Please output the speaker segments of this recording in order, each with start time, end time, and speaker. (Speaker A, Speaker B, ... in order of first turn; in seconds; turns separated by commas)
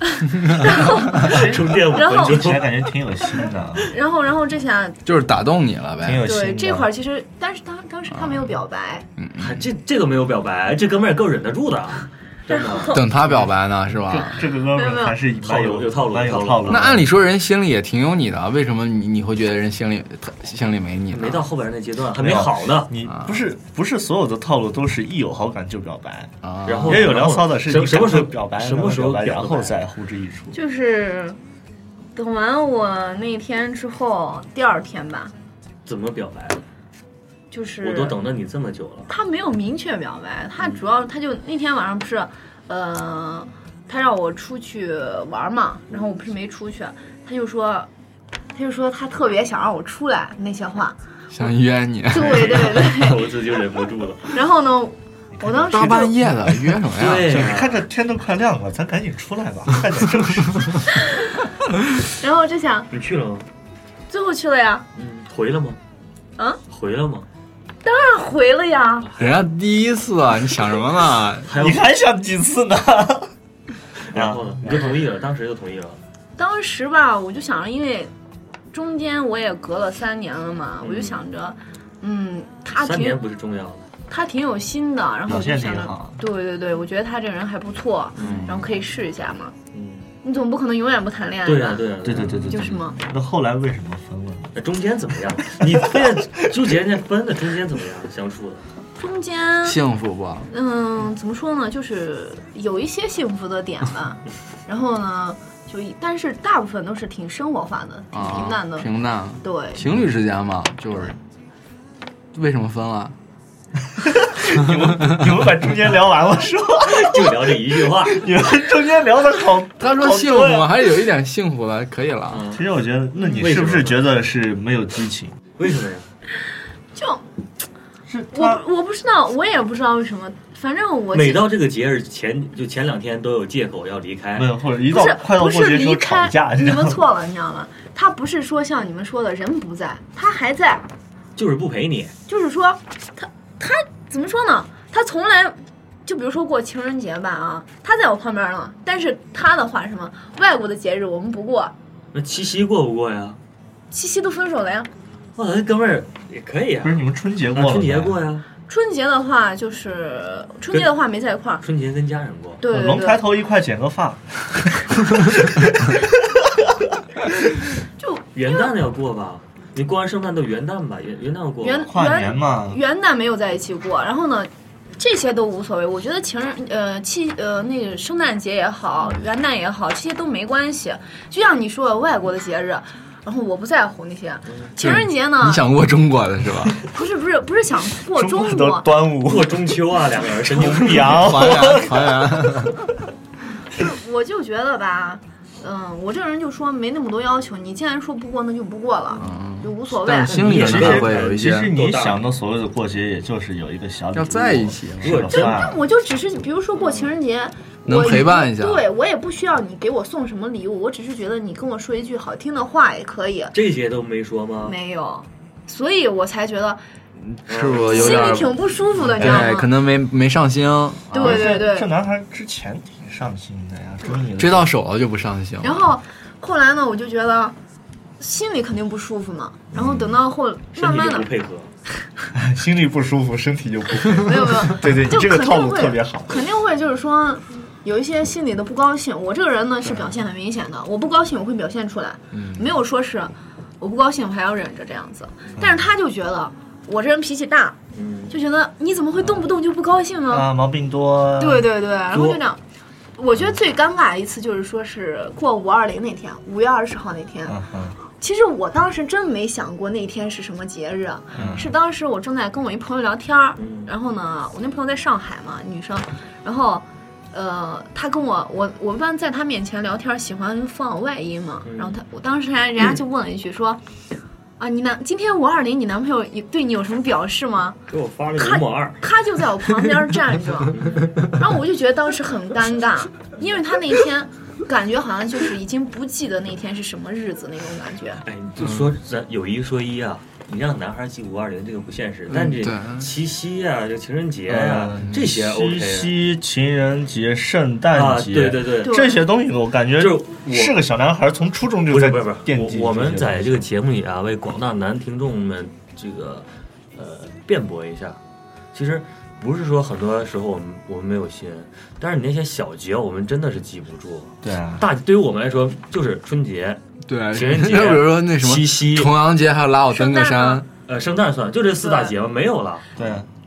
Speaker A: 0.3-2.9, Speaker B: 0.4-2.4, Speaker C: 2.2-3.9, Speaker B: 3.9-5.0, Speaker D: 5.1-6.3, Speaker C: 6.0-6.9, Speaker B: 6.2-9.1, Speaker D: 8.1-8.5, Speaker D: 9.2-9.7, Speaker A: 9.4-12.9, Speaker B: 12.5-13.0, Speaker D: 12.9-14.4, Speaker C: 14.1-17.1, Speaker B: 14.8-15.2, Speaker A: 15.4-17.0, Speaker D: 16.7-21.5, Speaker A: 21.1-22.9, Speaker C: 22.1-30.6, Speaker D: 23.1-23.4, Speaker D: 26.4-27.1, Speaker A: 26.6-29.8, Speaker B: 30.5-31.4, Speaker B: 32.1-35.3, Speaker A: 35.9-36.6, Speaker B: 37.5-38.2, Speaker A: 37.8-39.1, Speaker B: 39.1-47.9, Speaker B: 48.5-51.0, Speaker D: 51.3-52.8, Speaker B: 52.1-53.2, Speaker A: 52.2-54.4, Speaker B: 54.3-56.2, Speaker C: 55.4-56.1, Speaker D: 55.7-57.5, Speaker A: 57.0-57.8, Speaker C: 57.2-60.8, Speaker B: 62.2-62.9, Speaker A: 62.9-63.5, Speaker B: 64.1-64.8, Speaker A: 65.0-65.8, Speaker A: 66.7-67.3, Speaker B: 67.8-69.1, Speaker A: 69.0-69.4, Speaker D: 69.2-71.5, Speaker A: 71.5-71.8, Speaker C: 71.5-73.3, Speaker A: 74.0-76.0, Speaker C: 74.1-75.0, Speaker B: 76.4-78.1, Speaker B: 78.7-83.2, Speaker A: 80.8-81.2, Speaker A: 82.8-83.9, Speaker B: 84.1-89.5, Speaker C: 85.3-86.2, Speaker A: 88.2-88.5, Speaker D: 88.2-88.7, Speaker A: 89.7-90.1, Speaker B: 90.2-91.8, Speaker A: 91.5-92.5, Speaker C: 92.0-94.6, Speaker B: 92.5-93.0, Speaker A: 94.5-98.7, Speaker C: 95.6-96.1, Speaker B: 99.0-99.8, Speaker D: 99.6-100.5, Speaker B: 100.5-108.9, Speaker D: 108.1-111.2, Speaker B: 109.4-109.8, Speaker D: 112.3-113.2, Speaker C: 114.0-120.9, Speaker A: 116.8-118.3, Speaker D: 119.8-122.4, Speaker A: 122.3-122.7, Speaker C: 122.5-125.4, Speaker A: 123.2-124.1, Speaker A: 125.6-126.1, Speaker B: 127.0-127.3, Speaker C: 128.1-128.6, Speaker B: 128.3-131.4, Speaker A: 131.1-134.6, Speaker C: 134.3-137.0, Speaker B: 134.9-140.8, Speaker A: 141.4-142.2, Speaker B: 142.3-151.7, Speaker A: 152.1-153.4, Speaker B: 153.9-154.9, Speaker A: 155.4-158.4, Speaker C: 156.8-158.2, Speaker B: 158.7-161.6, Speaker A: 161.6-162.6, Speaker B: 162.6-163.3, Speaker C: 162.7-166.0, Speaker B: 168.0-168.7, Speaker A: 168.3-171.9, Speaker B: 171.6-185.6, Speaker C: 171.8-172.8, Speaker A: 184.5-184.7, Speaker D: 184.8-186.8, Speaker B: 186.9-188.9, Speaker C: 188.1-189.8, Speaker A: 189.2-191.3, Speaker C: 190.4-192.5, Speaker D: 191.0-192.8, Speaker B: 193.8-200.5, Speaker D: 199.2-201.7, Speaker A: 200.3-202.2, Speaker C: 200.5-205.8, Speaker D: 204.2-205.3, Speaker A: 205.0-205.6, Speaker B: 205.3-213.5, Speaker A: 206.8-207.1, Speaker D: 207.9-208.9, Speaker A: 213.5-214.8, Speaker B: 214.7-216.8, Speaker D: 217.2-218.6, Speaker A: 217.5-218.5, Speaker B: 217.9-219.7, Speaker D: 219.1-221.4, Speaker C: 219.2-219.5, Speaker C: 221.1-224.7, Speaker B: 221.2-221.9, Speaker D: 224.4-225.8, Speaker B: 225.6-227.6, Speaker B: 228.2-231.3, Speaker C: 229.7-230.1, Speaker A: 230.8-231.7, Speaker C: 232.3-236.4, Speaker B: 234.2-247.8, Speaker D: 242.3-242.6, Speaker C: 245.6-245.8, Speaker A: 247.9-248.4, Speaker B: 248.3-250.5, Speaker C: 250.3-251.7, Speaker B: 251.4-252.6, Speaker A: 252.1-252.4, Speaker B: 253.2-257.6, Speaker C: 257.5-258.0, Speaker B: 258.2-273.8, Speaker C: 261.3-261.7, Speaker A: 263.6-263.9, Speaker A: 271.7-272.0, Speaker B: 274.6-277.8, Speaker A: 277.9-279.0, Speaker B: 278.4-288.2, Speaker A: 280.7-281.3, Speaker A: 288.2-296.2, Speaker D: 292.3-293.1, Speaker C: 294.5-303.7, Speaker A: 297.9-299.0, Speaker B: 298.9-299.2, Speaker A: 300.0-300.8, Speaker A: 301.9-308.2, Speaker A: 308.7-316.8, Speaker C: 314.4-314.9, Speaker D: 317.1-320.7, Speaker A: 317.3-319.1, Speaker B: 319.9-320.6, Speaker A: 320.9-322.9, Speaker B: 321.8-322.1, Speaker C: 323.0-323.3